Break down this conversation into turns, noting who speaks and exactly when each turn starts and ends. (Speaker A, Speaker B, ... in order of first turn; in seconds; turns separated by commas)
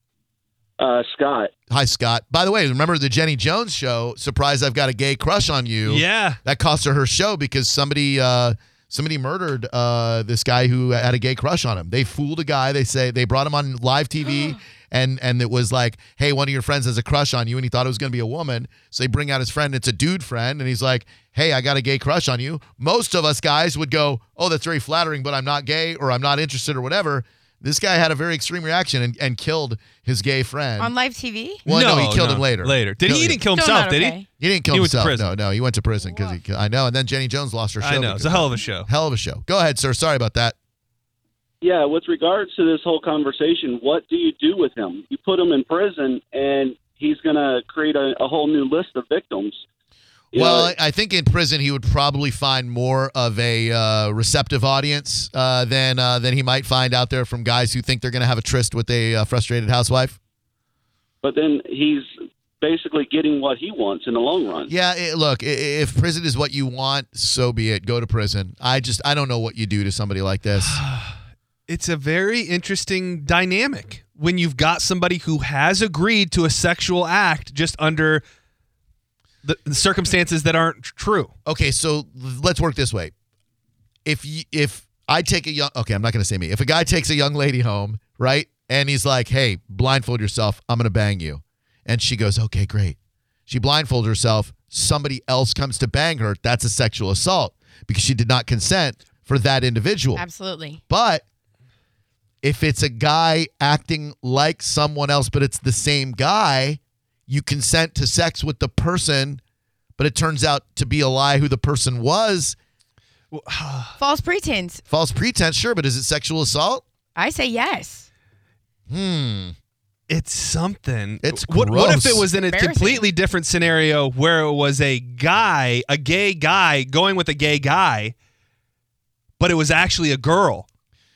Speaker A: 0.8-1.5, Speaker B: 1.7-30.9, Speaker C: 5.9-6.4, Speaker D: 30.8-31.6, Speaker B: 31.6-33.4, Speaker C: 31.7-34.2, Speaker D: 33.5-34.3, Speaker B: 34.4-40.6, Speaker C: 34.7-35.3, Speaker C: 37.8-38.9, Speaker A: 41.6-49.6, Speaker A: 50.3-50.7, Speaker B: 50.3-60.2, Speaker A: 61.2-64.7, Speaker B: 64.7-70.8, Speaker C: 70.6-78.2, Speaker C: 79.4-81.3, Speaker B: 81.5-83.1, Speaker B: 84.0-100.2, Speaker D: 100.2-100.8, Speaker B: 100.9-101.2, Speaker B: 102.4-109.4, Speaker B: 110.0-112.6, Speaker C: 113.3-114.0, Speaker D: 114.0-114.8, Speaker B: 114.9-116.8, Speaker D: 117.2-118.1, Speaker B: 118.9-119.5, Speaker C: 120.1-128.1, Speaker B: 121.2-122.3, Speaker D: 122.5-123.0, Speaker C: 129.4-130.7